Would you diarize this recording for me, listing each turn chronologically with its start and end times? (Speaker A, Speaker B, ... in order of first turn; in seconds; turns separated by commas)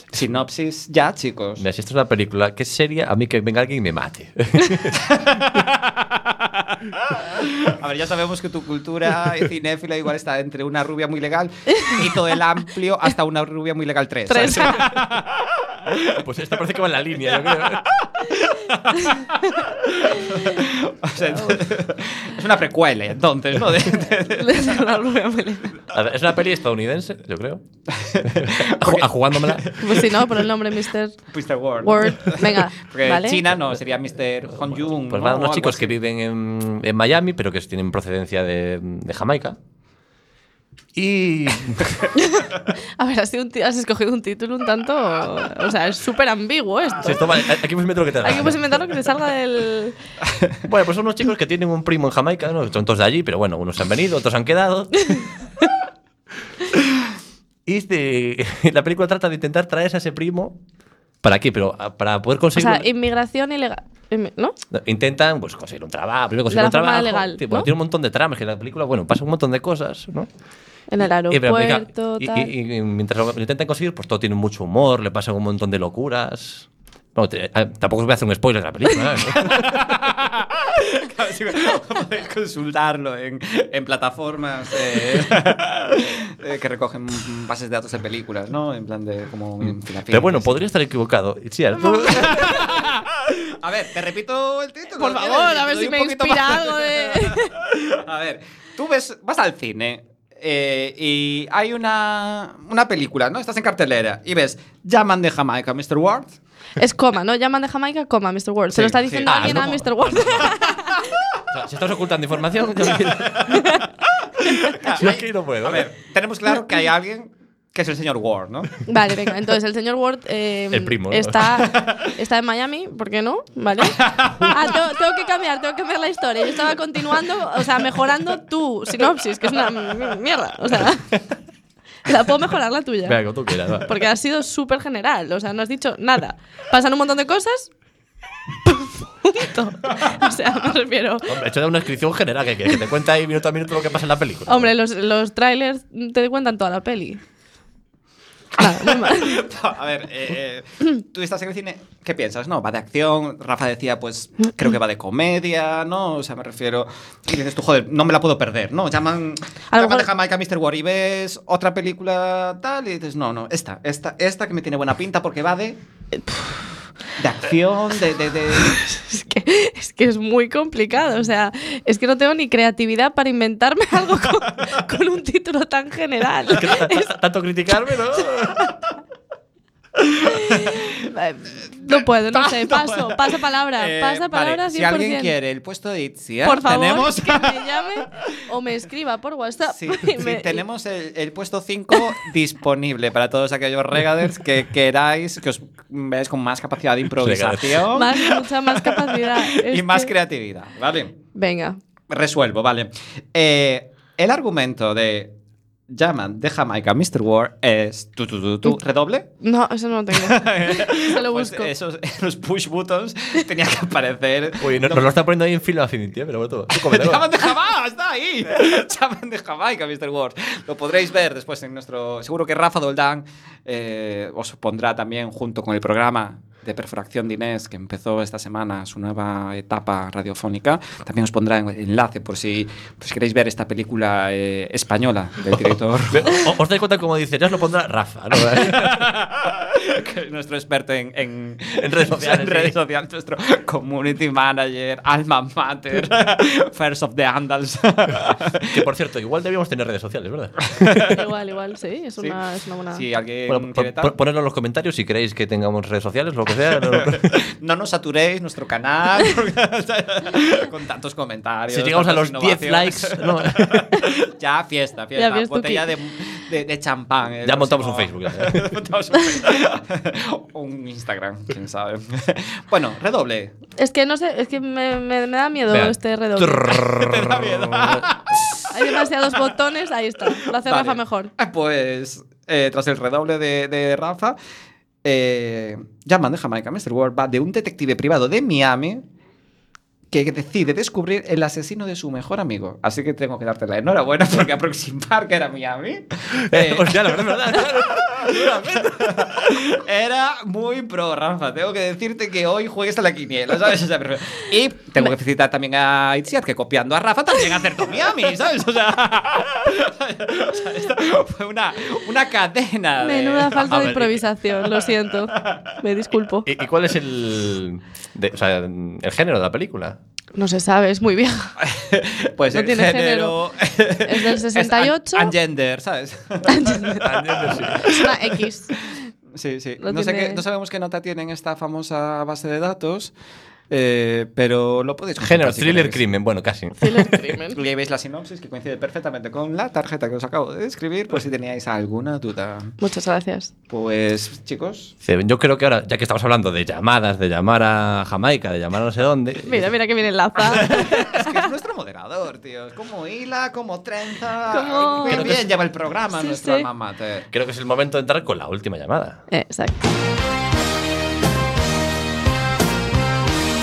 Speaker A: 0.1-1.6, Speaker B: 1.6-5.0, Speaker A: 5.0-16.2, Speaker C: 14.3-14.9, Speaker B: 16.1-17.8, Speaker A: 17.3-24.6, Speaker C: 24.3-25.7, Speaker B: 25.9-27.6, Speaker A: 27.9-30.1, Speaker B: 28.2-29.6, Speaker C: 29.8-31.1, Speaker A: 31.3-35.9, Speaker C: 31.8-33.4, Speaker B: 34.6-39.6, Speaker B: 41.0-42.0, Speaker C: 42.1-47.4, Speaker B: 47.0-48.8, Speaker C: 48.2-49.9, Speaker B: 50.6-55.2, Speaker B: 57.6-60.6, Speaker B: 61.2-62.9, Speaker C: 62.5-64.5, Speaker B: 64.7-70.3, Speaker C: 66.5-67.7, Speaker C: 70.9-72.5, Speaker B: 71.0-79.8, Speaker A: 79.4-90.6, Speaker B: 89.6-92.6, Speaker A: 92.1-106.3, Speaker C: 95.0-97.5, Speaker C: 106.8-111.0, Speaker A: 108.7-109.7, Speaker B: 109.2-110.5, Speaker B: 111.5-113.7, Speaker C: 113.5-113.8, Speaker A: 114.5-118.8, Speaker B: 114.8-115.9, Speaker C: 118.8-131.1, Speaker B: 120.7-121.6, Speaker A: 121.7-122.0, Speaker A: 124.0-124.5, Speaker C: 132.1-133.2, Speaker B: 133.0-133.9, Speaker C: 133.8-137.7, Speaker C: 138.7-141.3, Speaker B: 141.2-144.7, Speaker C: 144.5-147.2, Speaker C: 148.6-149.4, Speaker A: 148.6-165.8, Speaker C: 159.7-160.1, Speaker C: 166.2-166.4, Speaker A: 167.2-168.8, Speaker C: 168.6-177.1, Speaker B: 176.5-178.6, Speaker C: 178.4-178.7, Speaker A: 180.1-181.0, Speaker C: 180.4-185.3, Speaker A: 181.8-188.3, Speaker C: 186.4-190.6, Speaker A: 189.7-201.2, Speaker B: 197.2-197.8, Speaker C: 197.9-200.1, Speaker C: 201.3-201.8, Speaker A: 202.1-205.3, Speaker A: 205.9-209.3, Speaker C: 209.4-211.7, Speaker A: 210.1-215.2, Speaker B: 214.6-217.3, Speaker A: 216.7-236.4, Speaker B: 235.5-239.0, Speaker A: 238.5-248.8, Speaker B: 241.8-242.8, Speaker B: 248.7-250.9, Speaker A: 250.8-251.2, Speaker C: 251.1-253.0, Speaker A: 252.9-254.1, Speaker B: 253.5-257.4, Speaker A: 256.8-273.5, Speaker B: 261.7-263.9, Speaker C: 265.2-265.9, Speaker B: 267.4-268.8, Speaker C: 273.8-276.8, Speaker B: 275.7-278.1, Speaker A: 276.9-279.0, Speaker C: 278.7-281.3, Speaker A: 280.6-284.4, Speaker A: 285.0-289.0, Speaker A: 290.1-314.1, Speaker B: 296.4-299.4, Speaker C: 313.0-316.5, Speaker B: 313.7-314.2, Speaker A: 314.6-315.6, Speaker B: 316.4-320.0, Speaker C: 320.4-321.5, Speaker A: 321.6-328.1, Speaker C: 322.5-323.3, Speaker C: 324.0-325.3, Speaker C: 326.5-327.1, Speaker B: 327.0-327.9, Speaker C: 327.7-328.8, Speaker A: 329.3-333.1, Speaker C: 329.8-330.4, Speaker A: 333.7-336.0, Speaker B: 335.2-337.2, Speaker C: 336.8-337.6, Speaker A: 337.5-342.7, Speaker C: 342.8-343.5, Speaker A: 343.7-344.9, Speaker B: 345.0-349.7, Speaker C: 349.4-351.4, Speaker A: 350.5-357.3, Speaker C: 354.5-355.3, Speaker B: 355.1-355.4, Speaker C: 356.1-356.7, Speaker B: 357.3-359.2, Speaker C: 359.3-359.9